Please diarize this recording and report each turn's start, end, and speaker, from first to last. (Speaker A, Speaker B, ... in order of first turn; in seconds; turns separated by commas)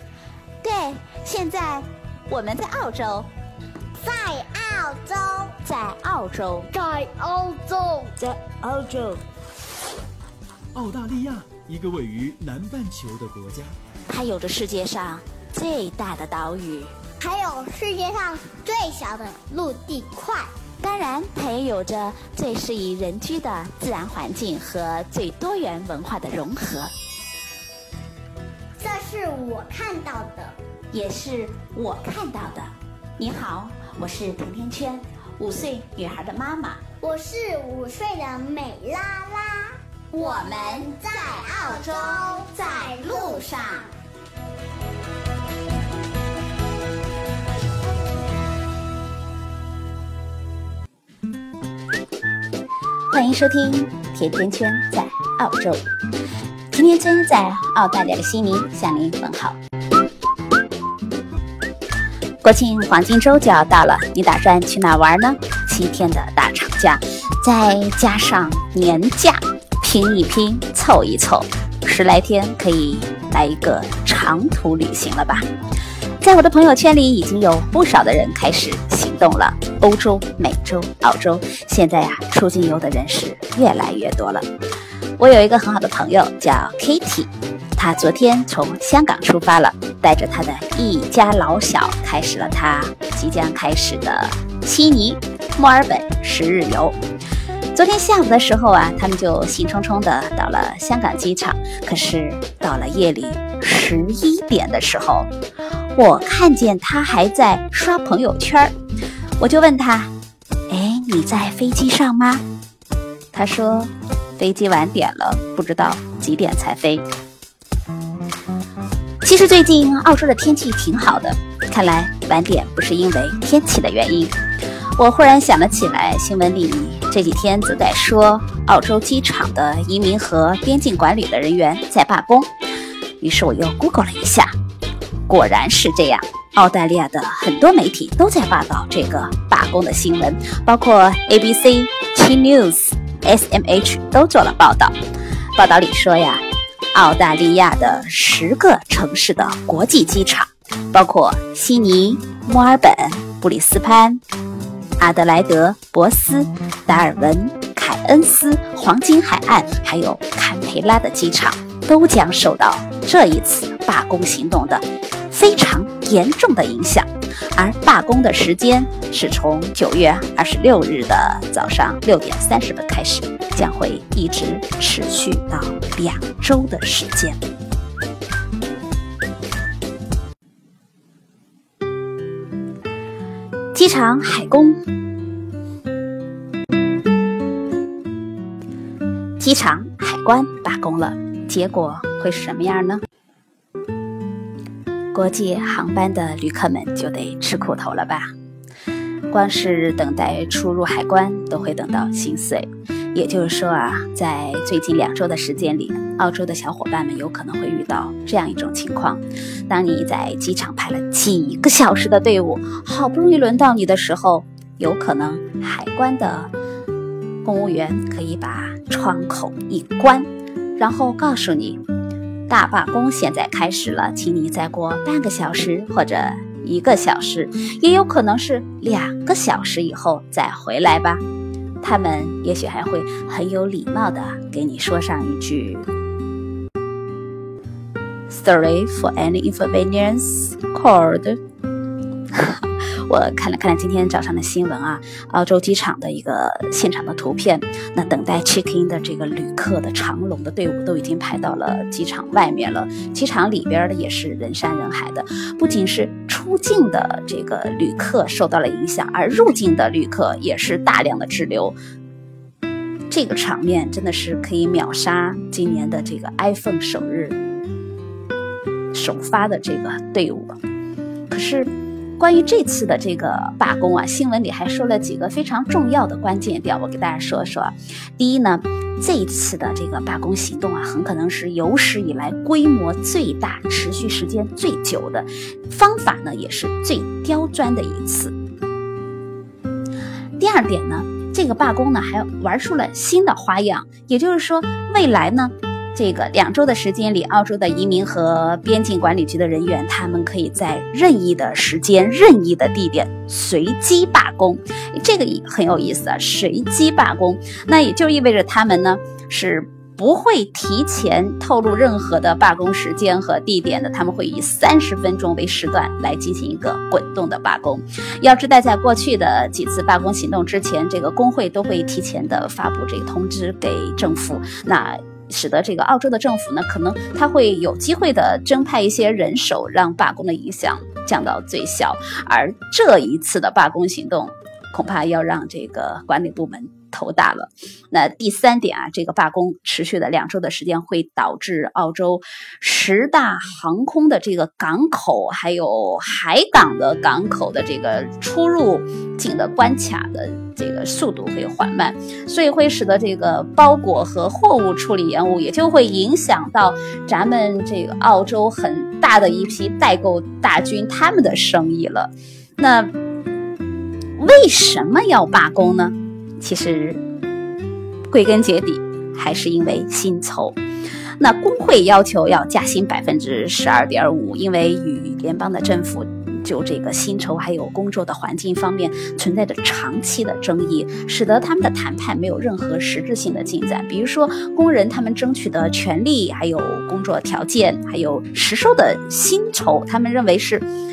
Speaker A: 0.6-3.3, Speaker B: 4.0-5.5, Speaker A: 5.6-6.7, Speaker B: 6.7-8.2, Speaker A: 8.2-9.2, Speaker C: 10.7-13.7, Speaker A: 14.1-16.9, Speaker B: 17.2-20.5, Speaker A: 20.8-26.9, Speaker B: 28.8-30.6, Speaker A: 30.9-36.8, Speaker B: 37.0-39.8, Speaker A: 40.1-43.9, Speaker B: 40.7-43.3, Speaker A: 53.1-55.8, Speaker A: 56.7-59.6, Speaker A: 62.4-75.5, Speaker A: 76.2-84.5, Speaker A: 85.2-97.0, Speaker A: 97.7-105.3, Speaker A: 106.0-108.7, Speaker A: 109.4-110.1, Speaker A: 110.7-112.4, Speaker A: 113.3-117.0, Speaker A: 119.2-124.4, Speaker A: 125.0-132.5, Speaker A: 133.2-134.5, Speaker A: 135.3-144.9, Speaker A: 145.6-154.2, Speaker A: 155.0-177.4, Speaker A: 183.7-184.8, Speaker A: 189.4-193.0, Speaker A: 195.1-198.3, Speaker A: 199.3-216.5, Speaker A: 217.4-221.8, Speaker A: 222.5-231.2, Speaker A: 231.8-235.9, Speaker A: 238.3-241.4, Speaker A: 242.3-261.8, Speaker A: 263.1-267.4, Speaker A: 268.9-270.6, Speaker A: 271.3-288.4, Speaker A: 290.4-362.9, Speaker A: 364.2-367.0, Speaker A: 368.1-370.6, Speaker A: 371.2-390.7